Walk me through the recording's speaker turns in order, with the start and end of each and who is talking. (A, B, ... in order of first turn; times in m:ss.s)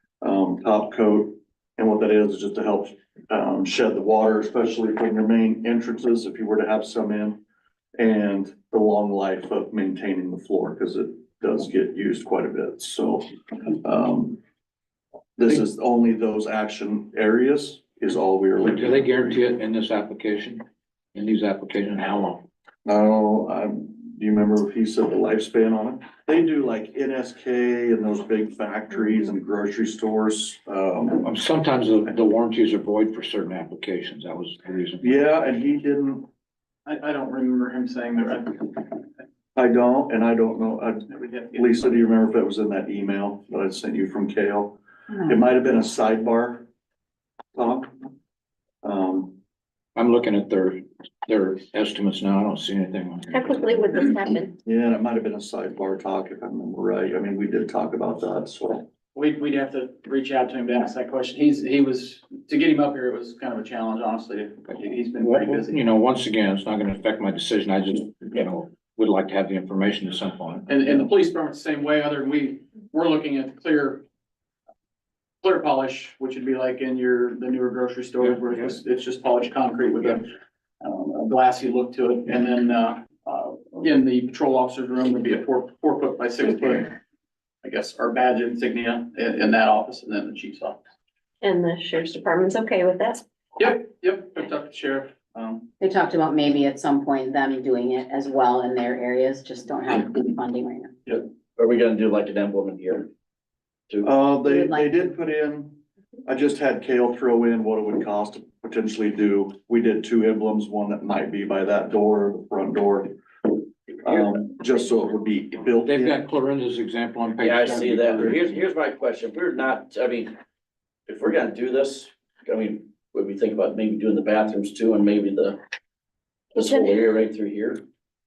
0:00.2-0:07.4 A
0:08.0-0:13.2 A
0:13.8-0:14.4 A
0:15.4-0:19.4 A
0:18.6-0:20.6 B
0:21.1-0:22.4 B
0:22.8-0:31.3 A
0:31.1-0:35.2 B
0:35.0-0:36.2 A
0:36.8-0:38.7 C
0:39.6-0:46.6 A
0:41.1-0:41.7 C
0:47.5-0:48.0 A
0:48.8-0:49.4 A
0:50.0-0:54.0 B
0:53.3-0:54.5 D
0:54.6-0:58.9 A
0:59.1-1:05.8 C
1:05.2-1:11.0 B
1:10.7-1:14.0 C
1:15.4-1:20.3 C
1:18.2-1:18.8 B
1:20.8-1:26.9 C
1:27.6-1:30.8 C
1:31.4-1:33.2 D
1:33.6-1:35.7 C
1:35.8-1:40.9 E
1:41.6-1:43.1 F
1:44.0-1:53.1 A
1:44.4-1:45.2 E
1:54.0-1:56.2 A
1:55.8-1:58.4 B
1:57.4-2:00.3 F
1:57.7-1:58.3 A
2:01.1-2:05.6 F
2:06.6-2:07.8 F